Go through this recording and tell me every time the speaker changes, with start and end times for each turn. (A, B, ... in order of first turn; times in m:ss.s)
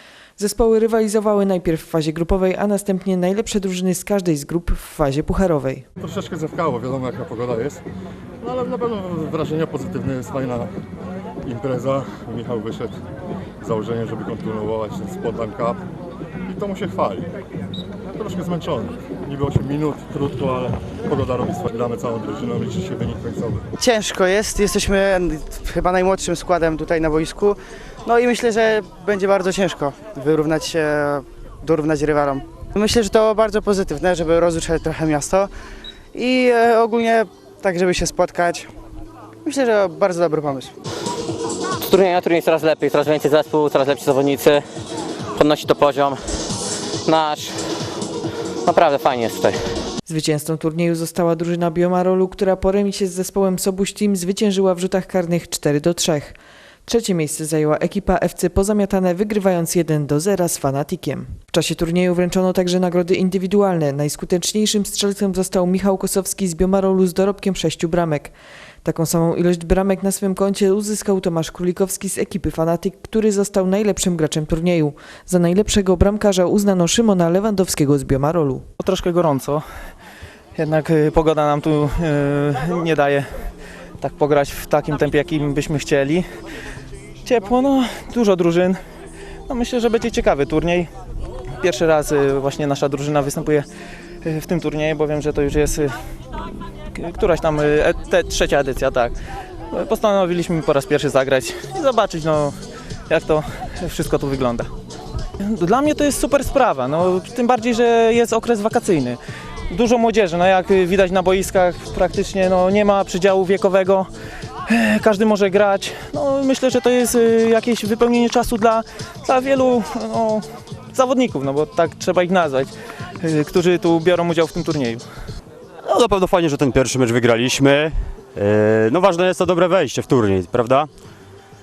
0:00.4-0:05.8 A
0:06.0-0:07.8 B
0:08.4-0:10.7 B
0:11.4-0:13.0 B
0:13.6-0:15.8 B
0:16.5-0:17.3 B
0:18.1-0:23.7 B
0:23.8-0:35.5 C
0:36.1-0:38.7 C
0:39.4-0:40.7 C
0:41.8-0:44.6 D
0:45.4-0:46.2 D
0:47.0-0:47.6 D
0:48.7-0:49.6 D
0:50.0-1:18.6 A
1:18.8-1:19.6 E
1:20.6-1:23.3 E
1:24.0-1:26.2 E
1:27.2-1:28.8 E
1:29.5-1:30.9 E
1:31.6-1:33.7 E
1:34.2-1:39.2 E
1:39.7-1:42.6 E
1:43.1-1:44.7 E
1:45.4-1:54.1 E
1:54.7-2:05.0 E
2:05.8-2:10.9 F